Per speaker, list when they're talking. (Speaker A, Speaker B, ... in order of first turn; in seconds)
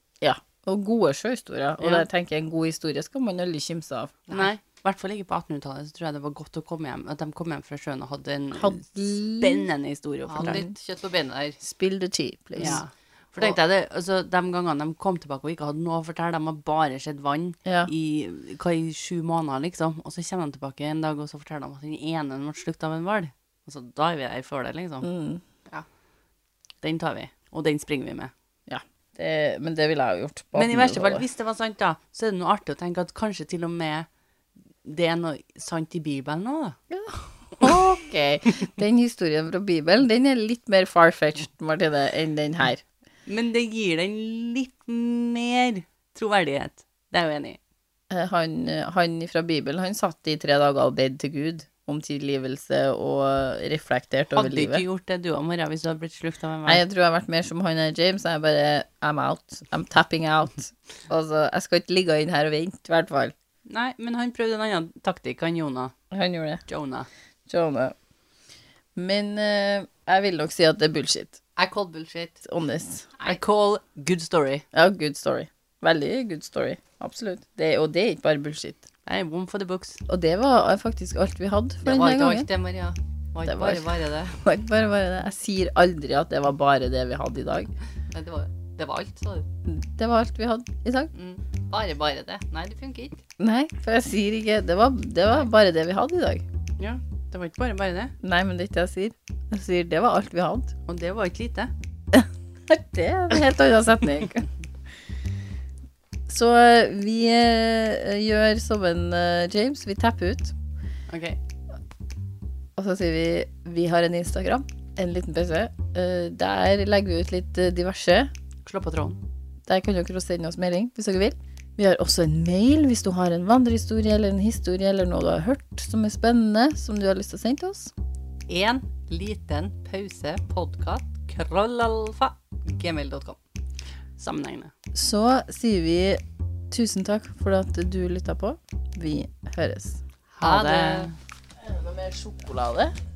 Speaker A: 0.2-4.1, 8.5-9.7, 10.4-10.7, 11.6-12.8, 17.6-17.9, 25.0-25.4, 28.7-31.2, 36.9-42.8, 48.1-54.8, 56.6-63.3, 66.1-66.6, 67.5-67.9, 69.0-71.4, 72.4-73.1, 74.7-78.8, 80.1-82.5, 83.4-87.7, 89.7-91.1, 93.4-96.4, 98.2-100.7, 102.1-104.5, 106.3-110.5, 112.8-118.3, 119.7-127.9, 134.9-140.0, 141.6-142.9
Speaker B: 1.8-2.0, 4.3-10.6, 12.6-25.1, 26.8-28.3, 30.5-34.1, 34.8-36.8, 43.2-47.6, 54.3-56.8, 63.7-65.9, 66.7-67.1, 73.2-74.6, 79.0-80.0, 96.8-98.1, 100.8-101.7, 118.6-119.2, 131.4-131.8, 134.2-134.7, 140.4-141.1
Speaker C: 10.3-11.6, 12.6-12.8, 71.5-72.4, 81.8-84.3, 88.1-89.5, 91.1-93.2, 128.5-133.4, 140.4-141.1